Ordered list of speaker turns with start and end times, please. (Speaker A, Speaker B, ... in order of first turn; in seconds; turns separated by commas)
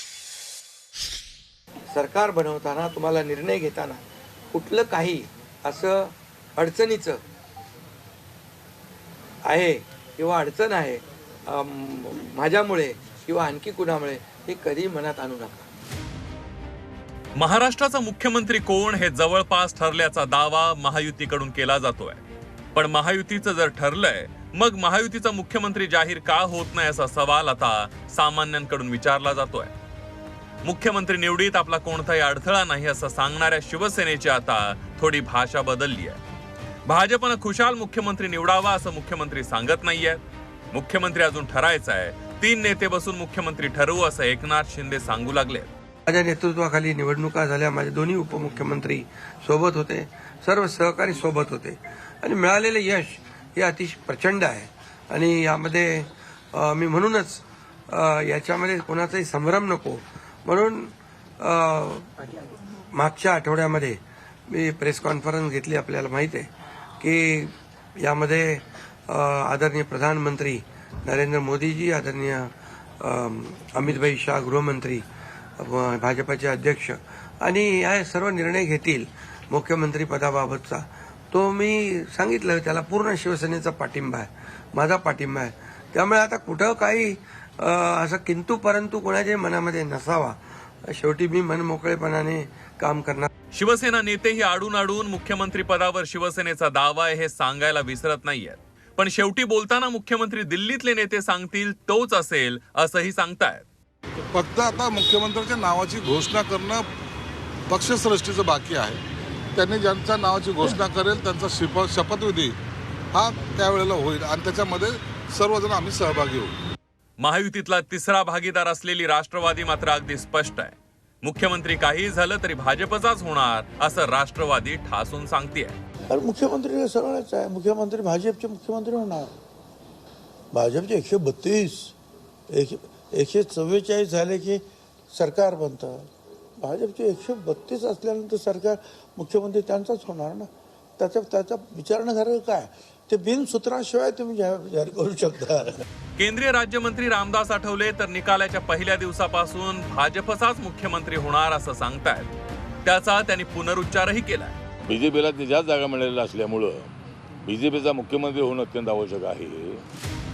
Speaker A: 1.9-3.9, Speaker A: 4.5-5.1, Speaker A: 5.7-6.0, Speaker A: 6.6-7.1, Speaker A: 9.5-15.5, Speaker B: 17.4-22.2, Speaker B: 22.7-29.7, Speaker B: 30.6-36.2, Speaker B: 36.9-40.2, Speaker B: 40.7-45.7, Speaker A: 46.1-62.1, Speaker A: 62.9-66.5, Speaker A: 67.0-75.0, Speaker A: 75.6-93.3, Speaker B: 93.5-103.7, Speaker C: 104.3-106.8, Speaker C: 107.7-109.0, Speaker C: 109.5-112.6, Speaker C: 113.1-116.5, Speaker B: 117.2-125.8, Speaker D: 126.1-129.3, Speaker D: 130.5-131.9, Speaker D: 132.5-136.1, Speaker D: 136.6-145.8, Speaker B: 146.2-152.3, Speaker B: 152.8-154.6, Speaker E: 154.8-156.9, Speaker E: 157.4-159.8